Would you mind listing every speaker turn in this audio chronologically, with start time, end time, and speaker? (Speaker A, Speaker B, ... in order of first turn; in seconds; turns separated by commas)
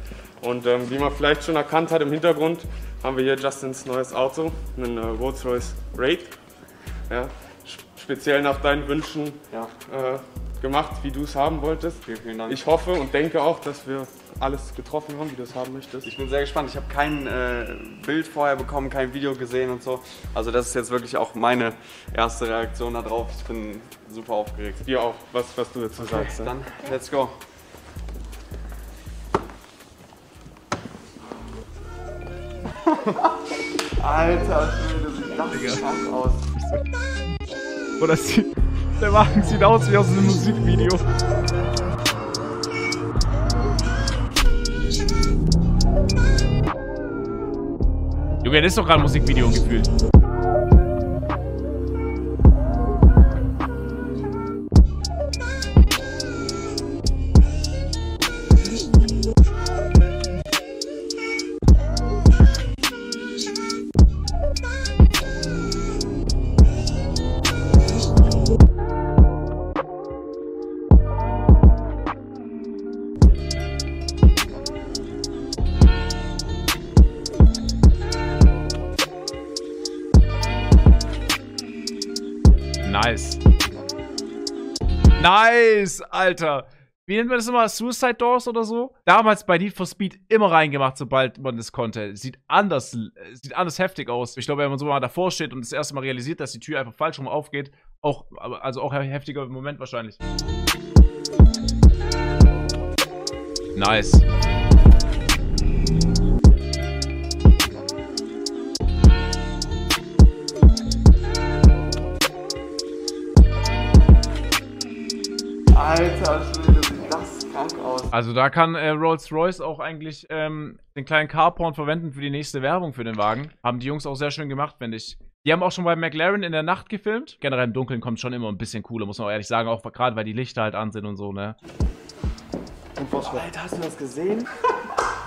Speaker A: 0.4-6.3, Speaker A: 7.1-16.1, Speaker B: 12.0-12.7, Speaker B: 16.0-24.8, Speaker A: 24.9-26.5, Speaker B: 26.0-27.4, Speaker B: 33.0-33.3, Speaker B: 34.0-36.5, Speaker C: 35.5-35.8, Speaker C: 36.6-36.8, Speaker C: 38.0-41.0, Speaker C: 48.4-49.9, Speaker C: 82.8-83.4, Speaker C: 85.2-100.2, Speaker C: 103.8-104.2, Speaker B: 115.7-118.1, Speaker C: 118.1-131.6, Speaker A: 133.0-133.4, Speaker B: 133.0-134.5